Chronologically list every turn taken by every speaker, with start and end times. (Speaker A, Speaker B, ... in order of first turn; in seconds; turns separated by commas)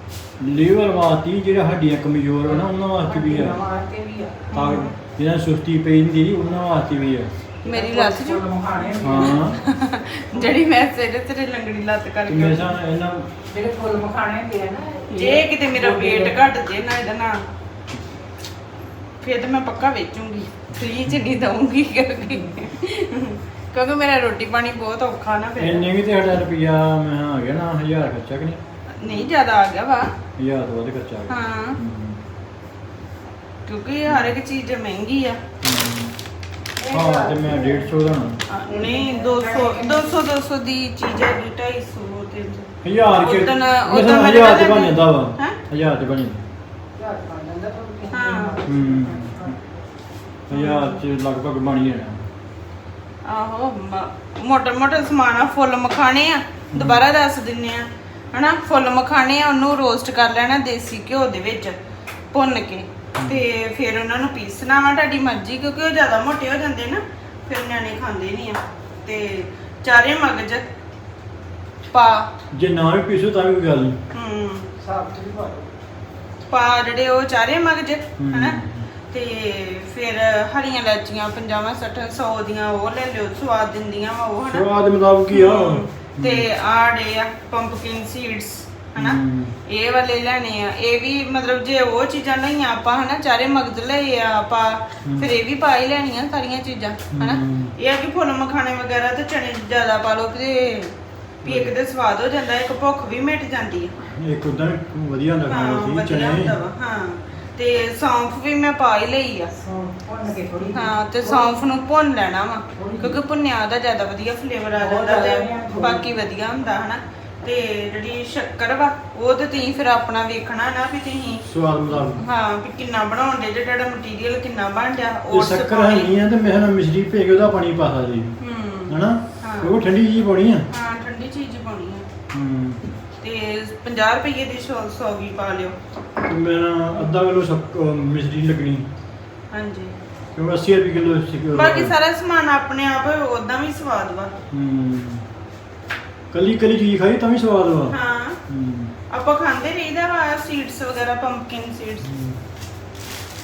Speaker A: 0.4-3.6, Speaker B: 2.5-4.5, Speaker C: 4.5-5.0, Speaker A: 4.5-7.3, Speaker B: 7.6-9.4, Speaker C: 7.6-12.7, Speaker A: 9.0-9.6, Speaker A: 12.2-13.3, Speaker B: 13.5-16.4, Speaker C: 15.1-17.4, Speaker C: 19.2-25.9, Speaker A: 25.6-28.6, Speaker C: 29.0-30.1, Speaker A: 30.4-32.2, Speaker C: 31.3-31.8, Speaker C: 33.6-35.4, Speaker A: 34.1-34.3, Speaker A: 35.6-36.1, Speaker B: 36.8-38.1, Speaker A: 36.9-38.4, Speaker C: 38.5-45.6, Speaker B: 38.7-40.2, Speaker A: 42.8-46.4, Speaker B: 47.0-49.7, Speaker C: 48.1-48.6, Speaker A: 48.6-49.6, Speaker A: 50.5-52.2, Speaker C: 50.5-51.0, Speaker C: 53.2-61.8, Speaker A: 56.7-57.0, Speaker C: 62.3-70.7, Speaker C: 71.9-72.3, Speaker A: 72.5-74.0, Speaker C: 74.1-74.7, Speaker B: 74.8-75.7, Speaker C: 76.5-78.6, Speaker A: 78.2-78.9, Speaker C: 79.1-84.7, Speaker A: 84.5-86.5, Speaker C: 85.3-103.9, Speaker A: 89.0-89.5, Speaker A: 95.0-95.3, Speaker A: 97.1-97.7, Speaker A: 101.4-101.7, Speaker A: 104.1-106.6, Speaker C: 105.5-109.5, Speaker B: 109.5-111.5, Speaker C: 110.7-126.1, Speaker B: 112.8-113.2, Speaker B: 114.8-116.1, Speaker A: 121.5-122.2, Speaker A: 125.3-128.4, Speaker C: 128.4-129.7, Speaker A: 128.9-130.7, Speaker C: 130.7-132.1, Speaker A: 132.3-132.9, Speaker C: 133.2-135.8, Speaker A: 136.2-138.8, Speaker C: 139.5-139.9, Speaker A: 140.3-141.9, Speaker C: 141.5-144.3, Speaker A: 144.5-145.2, Speaker A: 146.3-147.9, Speaker C: 147.9-148.4, Speaker A: 148.5-148.9, Speaker C: 149.1-152.1, Speaker A: 152.0-152.4